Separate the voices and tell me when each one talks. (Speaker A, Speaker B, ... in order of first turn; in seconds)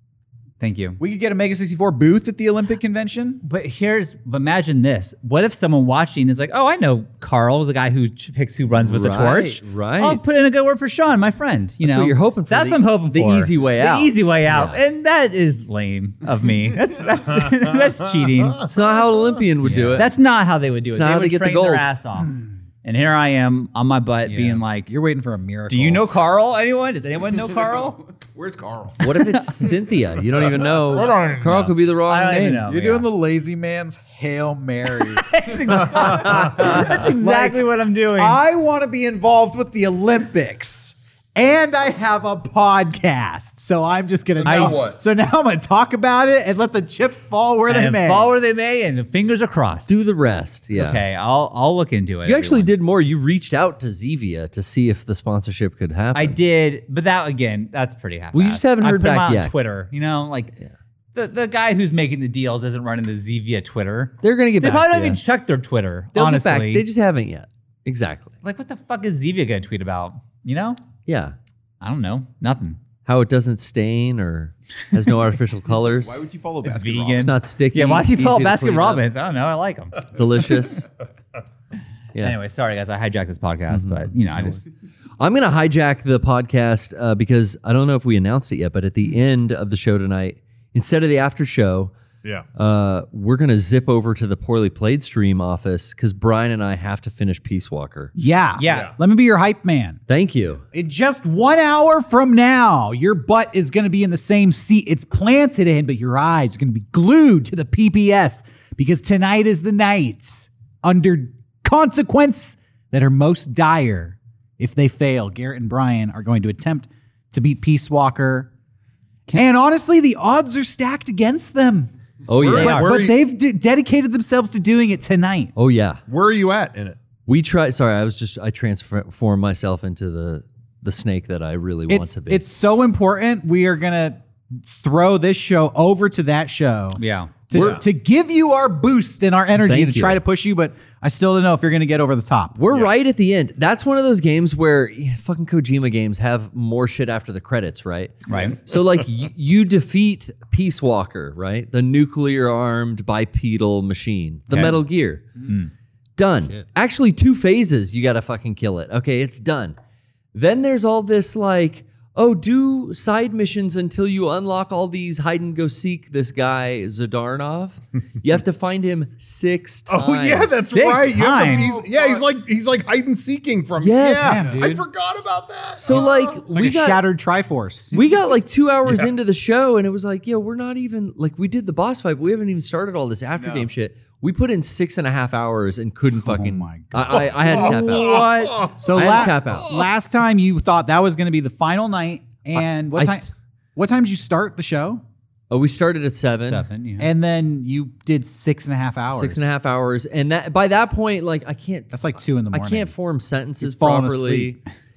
Speaker A: 0.6-1.0, 3.4-18.6, 19.9-24.9, 25.7-28.0, 32.1-33.0, 35.1-38.4, 44.5-44.8, 47.7-50.0, 50.7-52.7, 56.1-60.5, 61.1-66.8, 68.4-70.8, 71.8-72.8, 76.6-80.1, 82.2-84.6, 98.6-98.9, 122.4-123.0, 137.0-137.4, 170.7-171.7, 187.5-188.7, 196.4-197.1
Speaker B: 1.0-3.4, 19.6-20.0, 24.2-26.1, 32.6-37.6, 38.1-48.3, 98.1-100.0, 100.7-118.5, 119.3-121.9, 122.6-125.5, 131.9-142.5, 174.2-174.8, 176.4-177.9, 186.2-187.3, 188.8-195.0, 197.0-199.5, 201.9-202.9, 203.6-204.6
Speaker C: 8.8-10.3, 11.8-14.8, 18.6-20.1, 20.9-21.9, 29.0-32.7, 49.9-51.0, 52.2-56.4, 58.3-59.5, 64.2-65.2, 66.1-68.3, 71.0-71.3, 73.0-76.2, 77.1-79.0, 80.1-80.9, 83.7-84.6, 85.2-91.9, 92.5-98.1, 100.1-100.6, 122.3-122.8, 125.5-126.0, 127.3-132.4, 139.6-140.2, 142.6-155.3, 156.2-159.8, 160.3-170.6, 173.8-174.4, 175.8-177.0, 177.9-188.2, 188.9-189.8, 195.5-196.6, 199.1-204.6
Speaker D: 28.2-29.1, 44.4-44.7, 75.8-77.3, 171.4-172.2, 183.3-183.7
Speaker E: 31.0-31.7, 44.5-45.0, 98.7-98.9, 122.3-123.2, 126.1-127.0, 137.5-137.8, 169.9-176.4, 187.1-189.8